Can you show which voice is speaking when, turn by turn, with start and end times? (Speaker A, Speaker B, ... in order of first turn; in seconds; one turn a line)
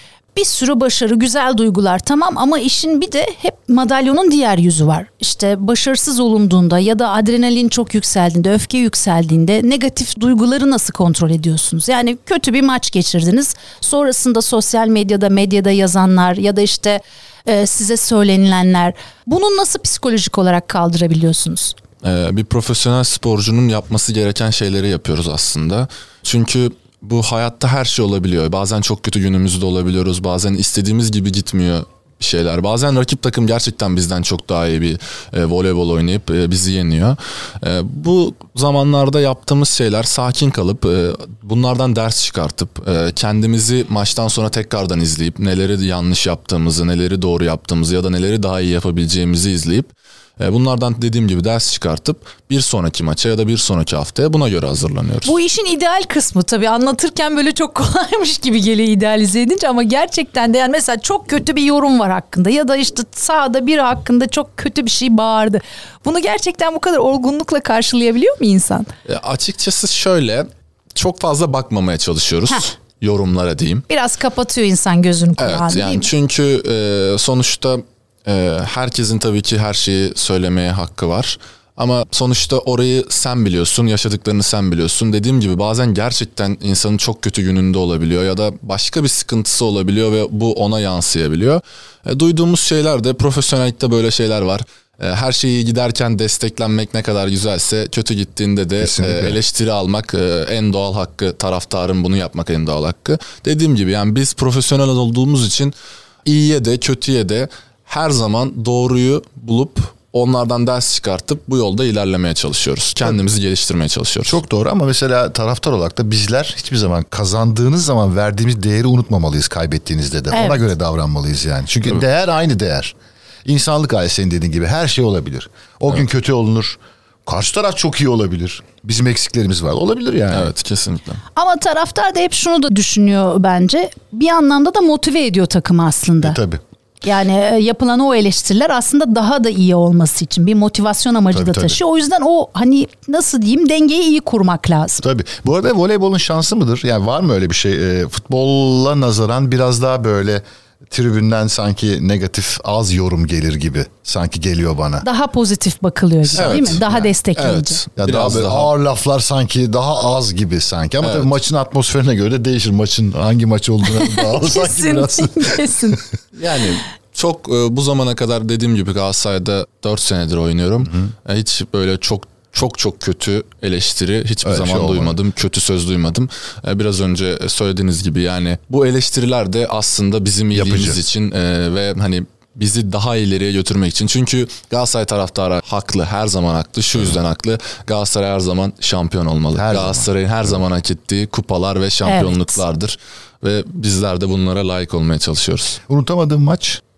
Speaker A: 0.3-21.8
Speaker B: 22.0-55.3
Speaker A: 55.2-68.9
Speaker B: 69.0-73.8
Speaker A: 73.9-76.1
Speaker B: 75.4-105.7
Speaker C: 98.8-99.4
Speaker B: 106.2-114.4
Speaker C: 114.2-130.5
Speaker A: 120.3-120.7
Speaker B: 130.3-131.2
Speaker A: 131.3-136.4
Speaker C: 136.2-136.6
Speaker A: 137.0-145.0
Speaker C: 141.3-141.8
Speaker C: 145.0-155.1
Speaker A: 155.0-157.8
Speaker C: 156.2-157.0
Speaker B: 156.4-158.7
Speaker C: 158.0-166.0
Speaker B: 161.0-161.3
Speaker A: 163.8-166.0
Speaker B: 166.3-195.8
Speaker C: 174.4-175.2
Speaker C: 180.5-181.0
Speaker C: 189.5-190.6
Speaker A: 192.0-192.6
Speaker C: 195.9-196.8